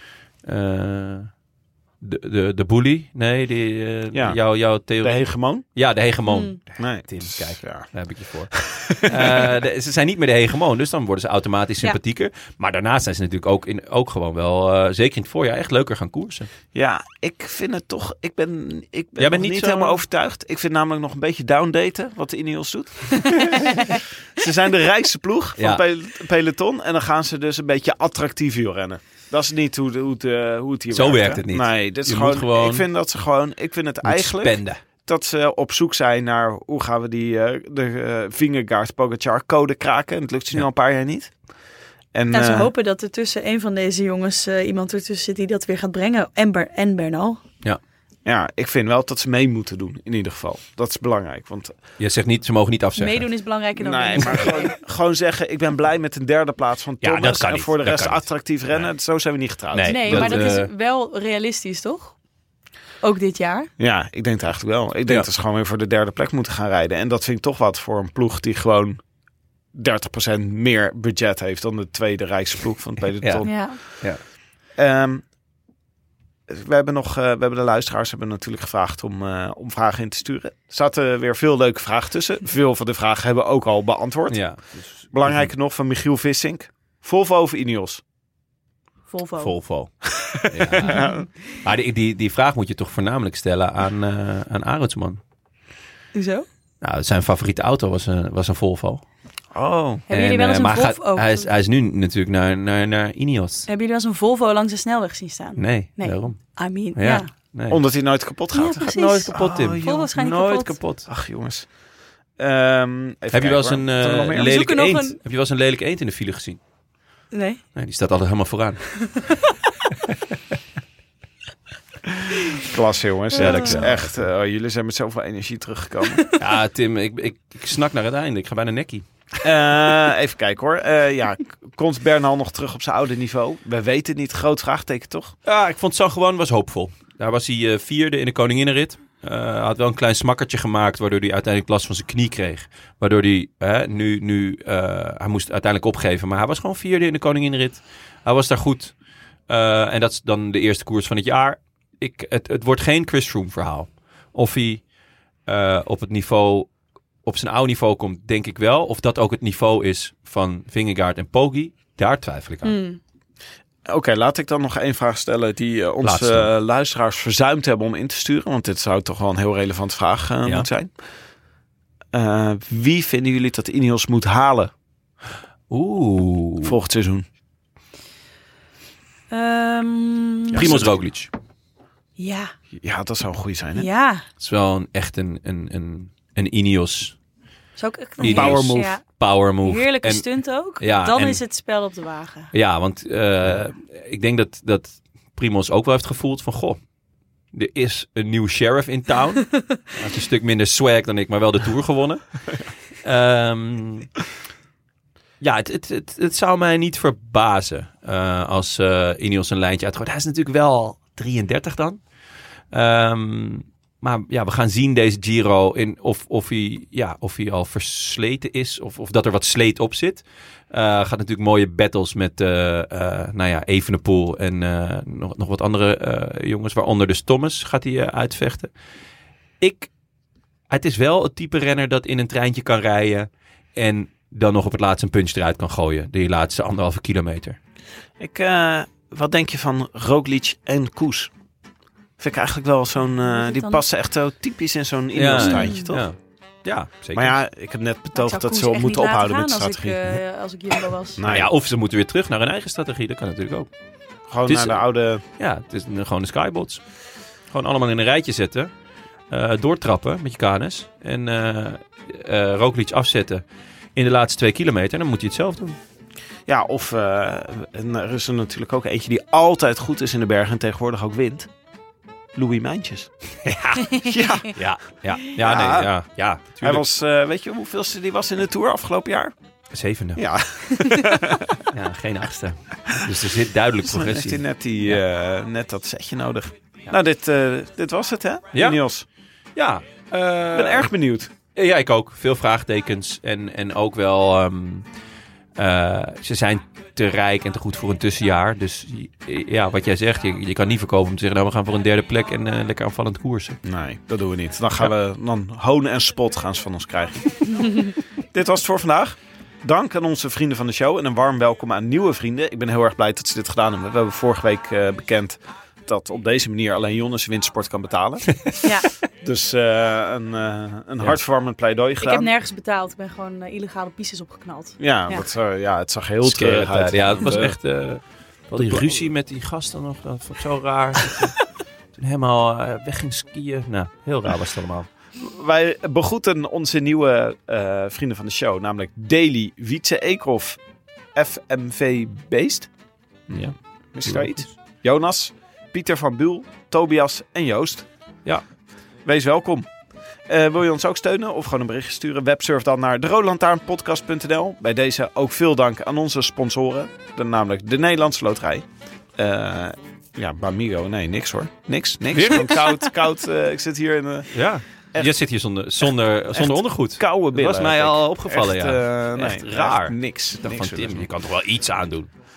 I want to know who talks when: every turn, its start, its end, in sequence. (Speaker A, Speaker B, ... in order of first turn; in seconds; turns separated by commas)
Speaker A: 0.4-1.3, Speaker A: 2.0-16.5, Speaker B: 4.1-4.4, Speaker B: 5.0-5.6, Speaker C: 6.2-6.6, Speaker B: 6.8-7.9, Speaker B: 8.6-9.4, Speaker B: 16.7-41.3, Speaker A: 19.2-20.0, Speaker A: 25.6-25.8, Speaker A: 30.9-32.9, Speaker A: 34.0-34.8, Speaker B: 42.1-42.7, Speaker C: 42.3-47.4, Speaker B: 48.2-51.7, Speaker A: 52.0-53.2, Speaker C: 53.0-54.7, Speaker B: 53.8-60.5, Speaker A: 57.0-58.9, Speaker A: 59.7-60.7, Speaker C: 59.9-62.2, Speaker C: 63.0-63.7, Speaker B: 63.8-69.0, Speaker B: 69.7-73.6, Speaker A: 73.2-74.2, Speaker C: 73.4-73.8, Speaker B: 74.8-75.2, Speaker B: 76.5-84.5, Speaker A: 84.3-85.5, Speaker B: 85.1-88.0, Speaker C: 89.1-89.5, Speaker A: 89.4-95.2, Speaker B: 90.0-91.2, Speaker C: 90.9-91.2, Speaker C: 96.1-96.5, Speaker A: 96.8-99.0, Speaker B: 99.5-100.1, Speaker C: 100.1-101.5, Speaker A: 100.1-103.7, Speaker C: 103.7-107.3, Speaker A: 105.6-107.8, Speaker B: 107.7-111.7, Speaker C: 108.5-110.8, Speaker A: 108.9-109.8, Speaker A: 110.6-111.1, Speaker B: 112.4-114.5, Speaker A: 113.3-116.6, Speaker C: 114.3-115.2, Speaker C: 117.3-117.6, Speaker A: 117.7-118.8, Speaker C: 118.9-119.5, Speaker B: 122.6-126.3, Speaker C: 123.3-123.9, Speaker A: 123.3-124.1, Speaker A: 126.4-129.0, Speaker B: 129.4-135.3, Speaker A: 135.4-148.9, Speaker A: 149.5-154.8, Speaker A: 155.4-156.7, Speaker A: 157.2-162.7, Speaker C: 162.6-163.0, Speaker B: 163.9-170.9, Speaker A: 166.0-166.5, Speaker B: 172.1-174.7, Speaker A: 175.7-176.8, Speaker B: 176.6-177.2, Speaker C: 179.3-180.7, Speaker B: 180.5-180.9, Speaker A: 180.5-181.3, Speaker C: 182.2-182.5, Speaker B: 182.8-183.9, Speaker C: 183.7-184.2, Speaker A: 184.4-187.2, Speaker C: 187.8-189.0, Speaker A: 188.2-191.4, Speaker B: 188.2-188.9, Speaker C: 189.6-192.5, Speaker A: 192.5-196.8, Speaker A: 197.5-202.4, Speaker A: 203.0-204.1, Speaker A: 205.4-212.0, Speaker A: 212.7-228.7, Speaker A: 229.6-229.9, Speaker A: 230.7-237.6, Speaker B: 238.2-241.3, Speaker B: 242.2-246.0, Speaker C: 243.2-243.8, Speaker A: 245.1-247.3, Speaker C: 245.3-245.9, Speaker B: 247.1-250.0, Speaker C: 248.1-251.2, Speaker B: 251.2-251.5, Speaker A: 251.3-253.7, Speaker B: 254.3-255.2, Speaker A: 254.4-254.8, Speaker A: 255.4-256.8, Speaker A: 257.5-258.7, Speaker A: 259.3-263.4, Speaker A: 263.9-265.8, Speaker B: 266.5-271.5, Speaker B: 272.3-273.1, Speaker A: 273.4-274.0, Speaker B: 274.0-274.5, Speaker A: 274.5-276.8, Speaker B: 275.4-275.9, Speaker B: 276.6-279.3, Speaker A: 279.7-280.2, Speaker B: 280.2-281.6, Speaker A: 281.7-285.0, Speaker B: 283.9-289.0, Speaker A: 288.5-288.8, Speaker A: 289.6-290.9, Speaker B: 290.5-291.3, Speaker A: 291.5-294.8, Speaker A: 295.6-303.6, Speaker B: 303.6-322.3, Speaker C: 318.6-318.9, Speaker C: 322.0-325.3, Speaker B: 324.8-327.6, Speaker A: 326.2-331.4, Speaker B: 328.6-329.1, Speaker A: 332.0-334.9, Speaker B: 335.2-340.6, Speaker B: 341.1-342.7, Speaker A: 343.3-344.5, Speaker B: 343.3-347.9, Speaker B: 349.0-349.7, Speaker B: 350.3-364.3, Speaker A: 362.1-362.8, Speaker A: 364.3-372.1, Speaker B: 366.3-371.0